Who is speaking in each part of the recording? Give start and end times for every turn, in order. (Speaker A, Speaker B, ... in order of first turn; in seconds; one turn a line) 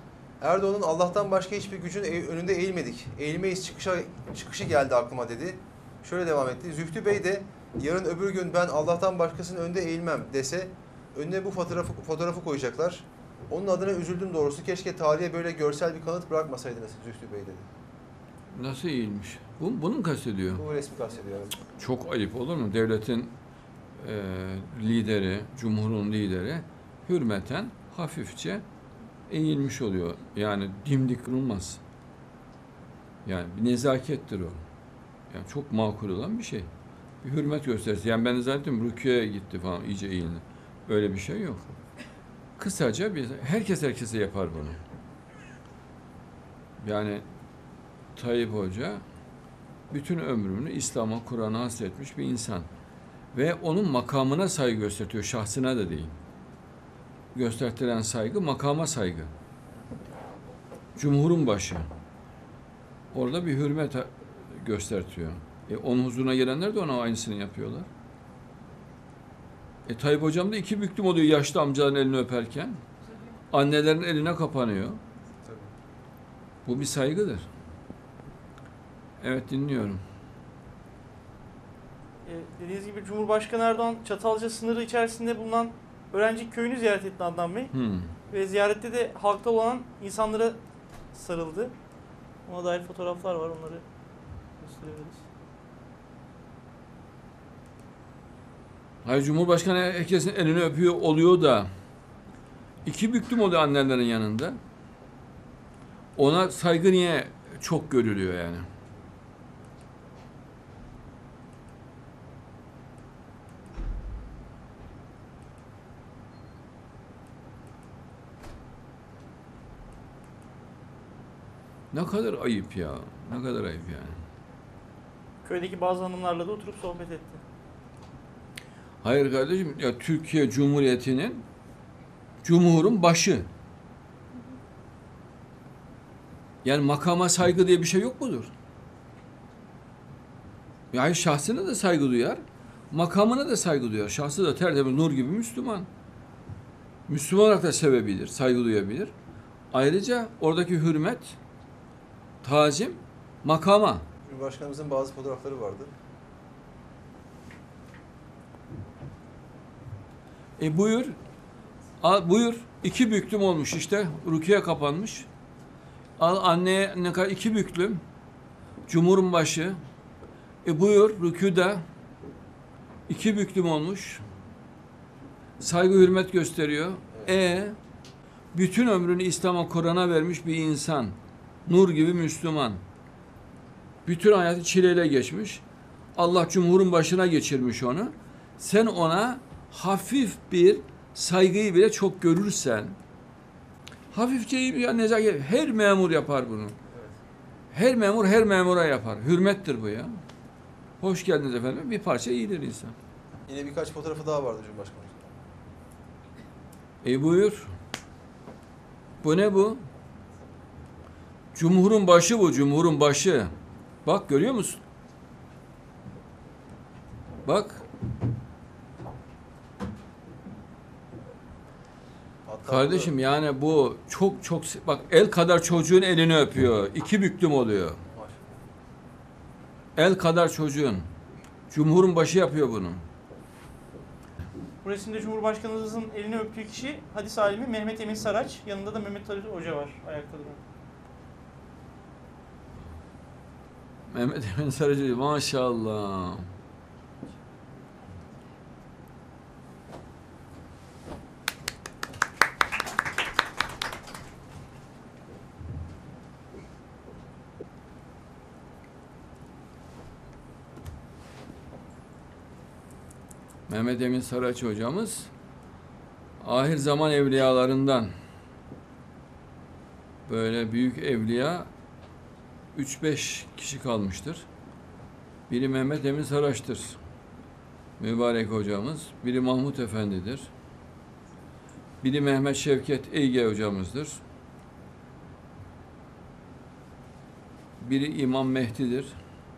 Speaker A: 0.4-17.7
Speaker B: 18.5-20.6
Speaker A: 20.5-21.6
Speaker B: 21.8-23.3
Speaker B: 24.0-28.6
Speaker B: 29.3-31.8
Speaker B: 33.2-34.6
Speaker B: 35.3-36.7
Speaker B: 37.2-41.7
Speaker B: 42.6-44.8
Speaker B: 46.8-47.2
Speaker B: 48.1-49.0
Speaker B: 49.9-52.7
Speaker B: 53.3-56.1
Speaker B: 57.3-59.3
Speaker B: 60.9-61.9
Speaker B: 63.1-67.9
Speaker B: 69.8-72.8
Speaker B: 73.5-75.0
Speaker A: 75.4-75.7
Speaker B: 76.6-77.5
Speaker B: 79.2-80.0
Speaker C: 82.2-87.7
Speaker B: 87.7-88.1
Speaker C: 88.3-90.6
Speaker C: 91.1-91.7
Speaker C: 92.5-93.8
Speaker C: 94.6-95.2
Speaker B: 99.0-101.7
Speaker B: 102.8-104.6
Speaker B: 106.1-108.6
Speaker B: 121.9-124.2
Speaker C: 125.4-127.4
Speaker B: 129.0-131.4
Speaker B: 132.4-133.4
Speaker B: 136.6-138.5
Speaker B: 140.9-145.9
Speaker B: 147.1-149.1
Speaker B: 149.7-151.3
Speaker B: 152.4-154.0
Speaker A: 154.2-155.9
Speaker B: 160.6-161.2
Speaker B: 162.0-165.3
Speaker B: 166.2-168.0
Speaker B: 168.9-169.8
Speaker B: 170.6-171.8
Speaker B: 173.1-174.2
Speaker B: 175.6-177.8
Speaker B: 178.5-182.8
Speaker B: 184.0-185.6
Speaker B: 186.1-193.0
Speaker B: 194.1-196.7
Speaker B: 197.7-200.2
Speaker B: 201.0-202.9
Speaker A: 203.5-205.3
Speaker B: 207.0-207.7
Speaker B: 209.2-209.8
Speaker B: 211.5-213.5
Speaker B: 214.0-214.8
Speaker B: 217.4-217.8
Speaker A: 222.4-223.1
Speaker B: 222.7-228.0
Speaker A: 228.1-228.4
Speaker B: 229.9-231.1
Speaker B: 231.7-233.0
Speaker C: 234.8-240.6
Speaker B: 244.1-246.5
Speaker B: 263.7-265.3
Speaker B: 266.4-268.1
Speaker B: 270.2-271.7
Speaker B: 272.7-274.4
Speaker B: 275.5-277.0
Speaker B: 278.0-280.5
Speaker B: 282.0-284.2
Speaker B: 287.8-289.2